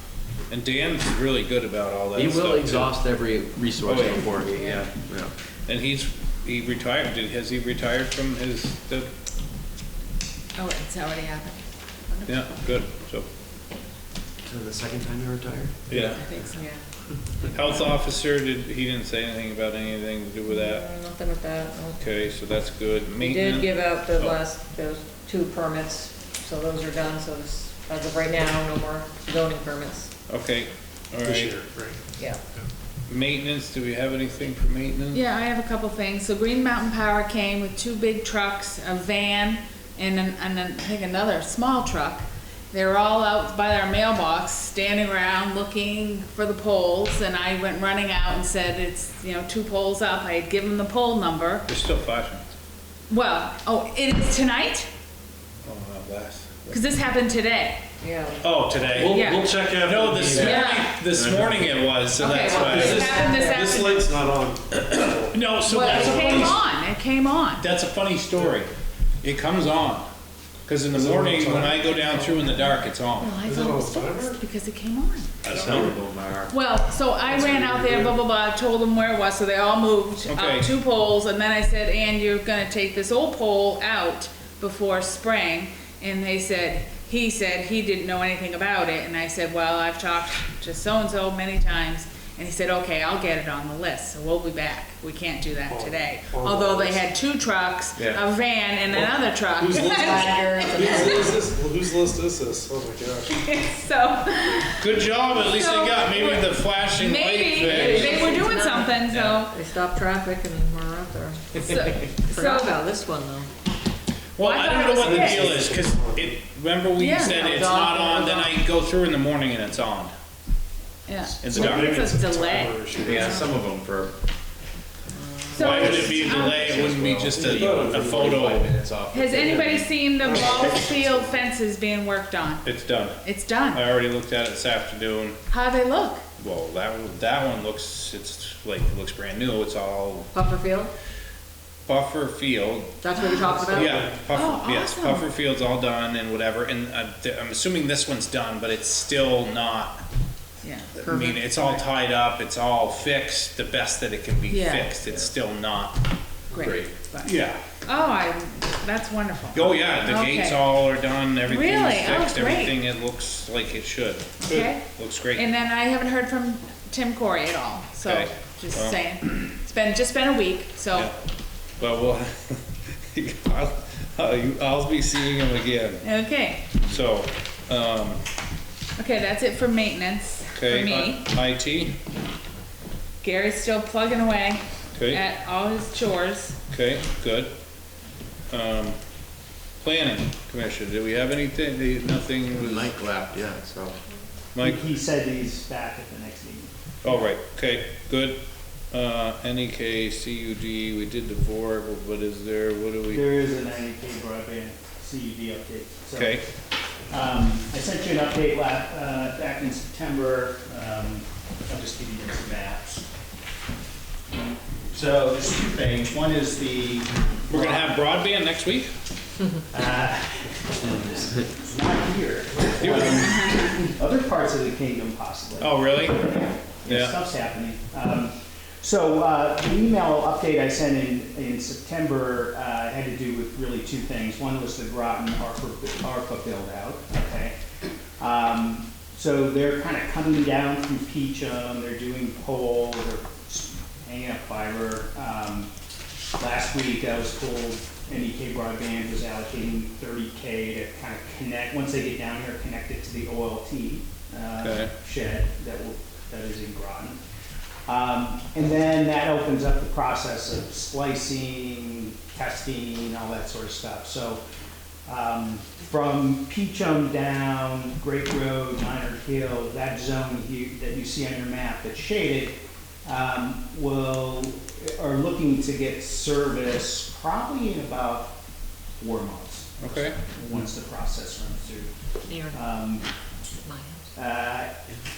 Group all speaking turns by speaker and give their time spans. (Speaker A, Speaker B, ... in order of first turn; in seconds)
Speaker A: 0.5-2.9, 3.9-4.3, 5.7-9.1, 12.3-13.3, 15.9-16.2, 17.5-20.9, 22.0-24.4, 30.3-31.5, 33.1-35.2, 51.7-52.4, 55.6-56.8, 58.4-59.1, 59.9-63.1, 64.7-66.6, 67.6-68.7, 69.2-70.1, 70.7-73.4, 75.4-76.0, 80.3-80.7, 104.8-108.3, 109.1-109.4, 114.4-120.1, 121.4-122.0, 125.6-128.7, 132.7-133.2, 133.7-135.4, 136.4-140.3, 141.9-143.0, 143.7-150.0, 151.1-156.0, 157.2-157.6, 159.5-165.5, 168.0-169.0, 171.8-176.0, 176.9-178.2, 180.6-182.0, 185.0-185.2, 186.7-187.5, 188.5-189.0, 189.8-192.8, 194.6-194.8, 197.0-198.4, 198.9-203.2, 206.2-206.4, 217.5-218.9, 222.8-223.4, 225.6-226.3, 226.8-227.2, 254.6-254.9, 279.8-280.2
Speaker B: 2.1-5.3, 14.4-15.8, 61.1-62.0, 75.7-76.5, 100.3-100.8, 123.0-124.1, 125.6-129.9, 156.5-156.9, 192.5-194.0
Speaker C: 4.6-4.8, 16.5-16.8, 20.5-22.0, 23.2-30.1, 58.0-58.4, 62.3-63.7, 65.7-66.5, 72.1-74.1, 99.8-101.4, 107.6-113.5, 117.2-118.5, 125.1-125.6, 140.3-140.9, 143.0-144.1, 151.0-151.4, 282.3-282.6, 283.6-284.1
Speaker D: 10.6-12.4, 15.9-16.6, 35.1-51.7, 53.1-54.9, 56.7-57.8, 59.0-59.6, 60.3-61.0, 62.2-64.1, 65.7-67.7, 73.6-75.9, 76.5-101.3, 103.3-109.5, 111.6-112.8, 114.4-115.7, 117.0-117.6, 121.1-123.5, 125.5-126.8, 129.1-132.7, 133.2-133.8, 135.5-136.2, 143.1-145.3, 150.6-150.9, 154.5-155.0, 156.5-160.7, 161.5-162.8, 164.4-171.1, 176.0-176.8, 179.0-181.3, 183.2-186.6, 223.0-223.7
Speaker E: 31.2-32.0, 58.9-60.6, 62.6-66.4, 70.9-72.2, 73.3-74.4, 75.6-76.0, 77.3-78.2, 95.7-97.1, 98.9-103.4, 115.0-116.4, 121.4-123.5, 125.7-126.3, 127.3-128.2, 129.5-131.4, 143.8-144.3
Speaker F: 194.6-196.7, 203.1-206.5, 207.1-213.1, 214.9-218.0, 219.7-237.6, 238.2-245.7, 246.4-257.2, 257.9-264.4, 265.1-278.4, 279.0-281.9, 282.5-283.1, 284.1-284.7